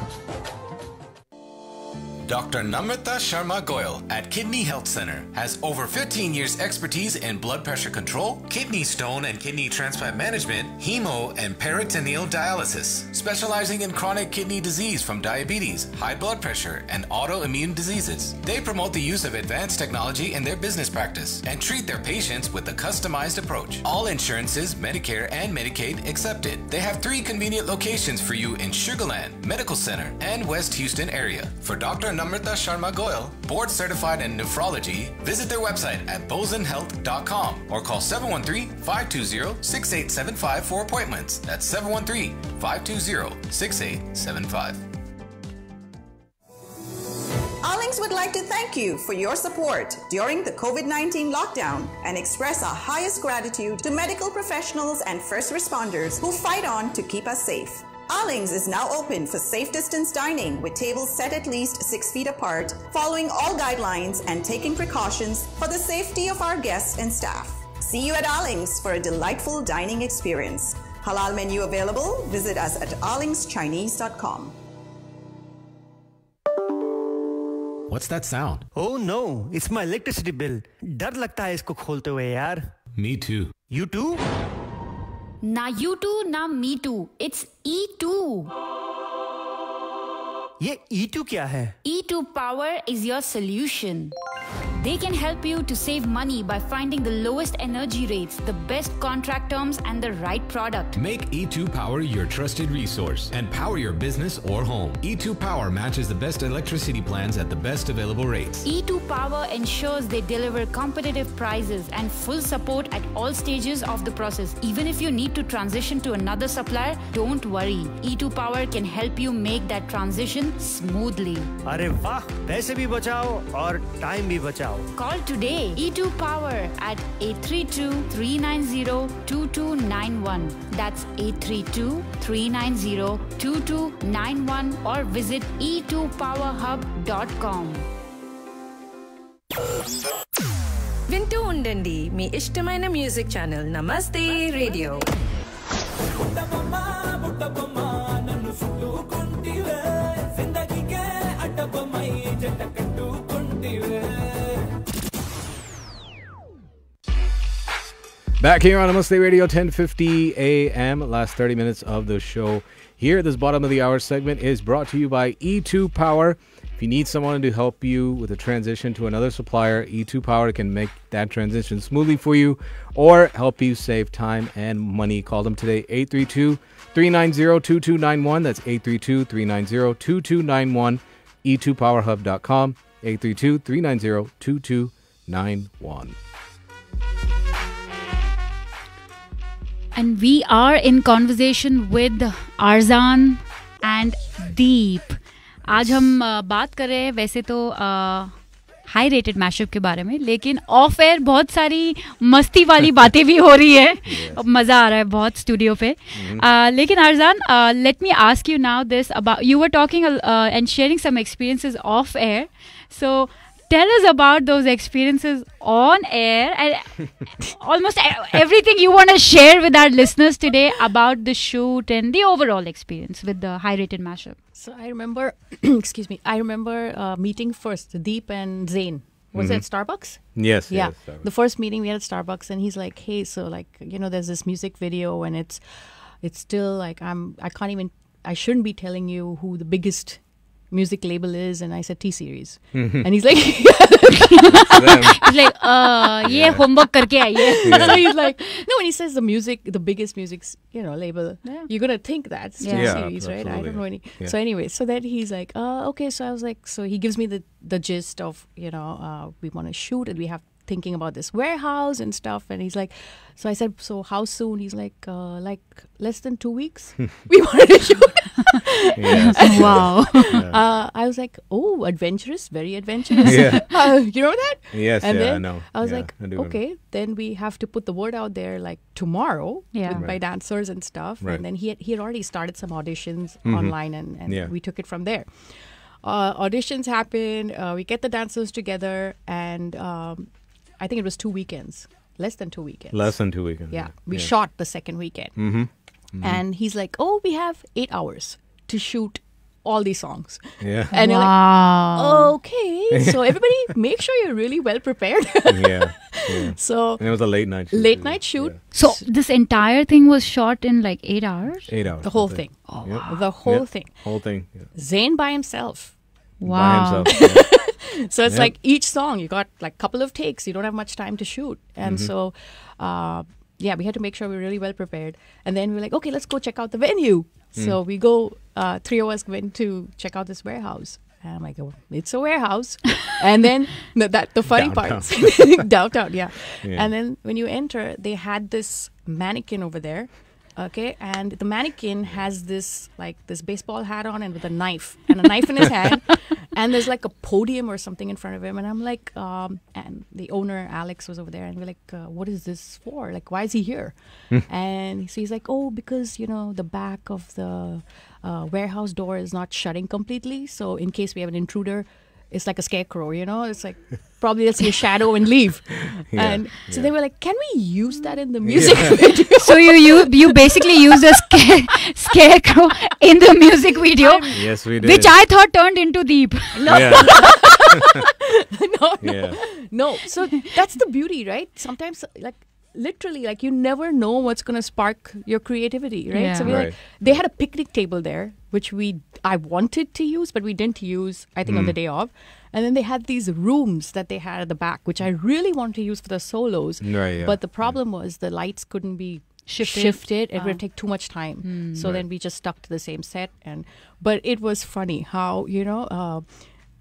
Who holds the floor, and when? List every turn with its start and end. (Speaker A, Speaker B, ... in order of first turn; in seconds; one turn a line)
Speaker A: 2.2-44.8
Speaker B: 47.6-74.5
Speaker A: 77.9-78.7
Speaker C: 78.7-82.8
Speaker A: 83.0-83.5
Speaker C: 83.7-84.2
Speaker D: 85.4-88.5
Speaker C: 90.6-91.7
Speaker D: 91.8-94.1
Speaker D: 94.8-101.0
Speaker A: 100.9-108.7
Speaker D: 108.6-121.5
Speaker C: 121.7-124.9
Speaker D: 124.9-137.8
Speaker E: 141.1-145.0
Speaker F: 158.4-186.2
Speaker D: 189.9-198.3
Speaker F: 195.7-196.1
Speaker D: 198.8-224.4
Speaker F: 204.1-204.4
Speaker F: 206.1-206.4
Speaker G: 224.5-246.2
Speaker F: 229.3-231.3
Speaker F: 242.7-243.1
Speaker F: 244.5-245.2
Speaker D: 244.6-247.8
Speaker F: 246.2-246.6
Speaker G: 247.4-295.6
Speaker F: 247.6-248.0
Speaker D: 252.6-253.0
Speaker F: 252.7-254.3
Speaker F: 268.9-270.6
Speaker D: 269.1-270.3
Speaker D: 273.1-273.5
Speaker F: 273.2-274.0
Speaker F: 274.7-276.6
Speaker D: 279.7-280.0
Speaker F: 279.9-280.3
Speaker F: 283.4-284.5
Speaker F: 292.9-294.3
Speaker F: 295.4-296.4
Speaker G: 296.2-309.0
Speaker F: 300.6-300.9
Speaker D: 300.9-302.3
Speaker F: 302.9-303.5
Speaker F: 305.5-308.6
Speaker D: 308.7-311.7
Speaker F: 311.7-314.7
Speaker G: 312.0-314.2
Speaker D: 312.7-313.2
Speaker G: 314.7-316.0
Speaker D: 316.4-317.1
Speaker F: 316.4-317.7
Speaker G: 317.1-371.4
Speaker F: 318.2-318.5
Speaker F: 321.8-322.1
Speaker F: 334.5-335.7
Speaker F: 336.6-336.9
Speaker F: 365.9-366.9
Speaker F: 368.4-369.0
Speaker D: 369.4-377.0
Speaker G: 373.9-374.4
Speaker F: 374.3-375.1
Speaker G: 376.5-406.5
Speaker F: 376.7-377.8
Speaker F: 379.0-379.4
Speaker D: 386.1-386.6
Speaker F: 386.4-387.2
Speaker F: 391.4-391.8
Speaker F: 396.8-397.8
Speaker D: 399.4-400.6
Speaker D: 401.4-401.8
Speaker F: 401.8-402.1